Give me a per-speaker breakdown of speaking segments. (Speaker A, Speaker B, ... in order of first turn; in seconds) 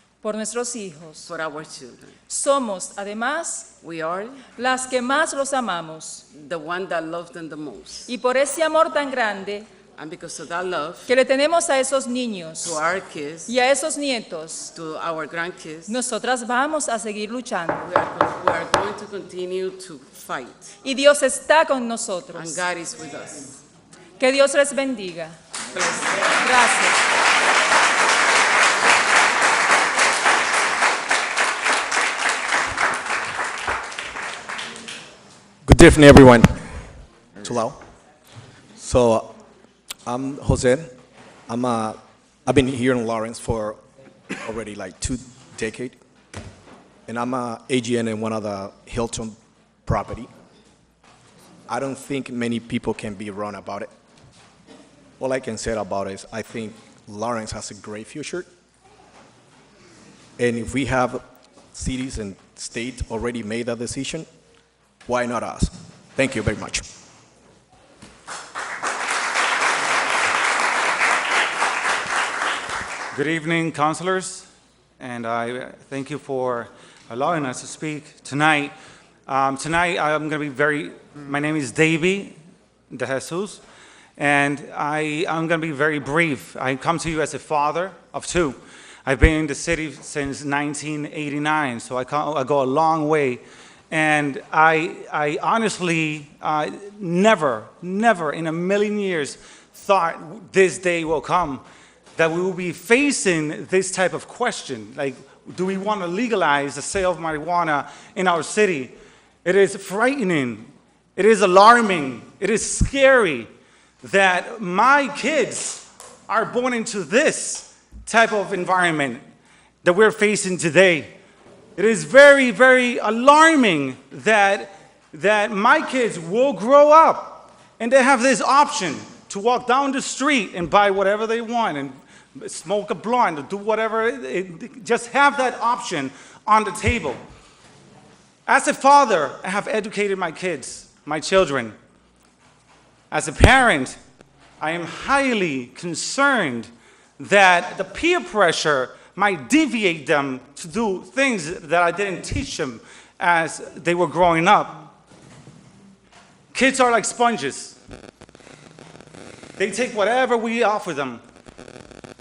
Speaker A: 0.2-1.3, 2.3-3.7, 4.5-6.2, 8.1-9.7, 11.1-12.8, 13.5-14.7, 15.9-17.8, 20.8-22.6, 24.2-25.3, 26.4-27.0
Speaker B: 1.2-2.2, 3.8-4.5, 6.3-8.1, 9.9-11.1, 12.6-13.5, 14.7-16.0, 17.8-20.8, 22.3-23.6, 25.7-26.4
Speaker C: 35.6-36.9, 37.4-37.8, 38.8-39.4, 40.0-40.9, 41.5-43.8, 44.3-46.0, 47.1-49.3, 49.9-50.3, 51.7-53.9, 55.2-58.5, 60.4-61.2, 61.7-64.3, 65.0-66.8
Speaker D: 73.1-74.5, 75.0-78.7, 79.3-82.3, 82.9-83.6, 84.2-113.5, 114.0-119.2, 119.8-121.1, 121.8-137.2, 138.4-141.8, 143.1-144.0, 144.6-154.9, 156.5-157.8, 159.6-161.2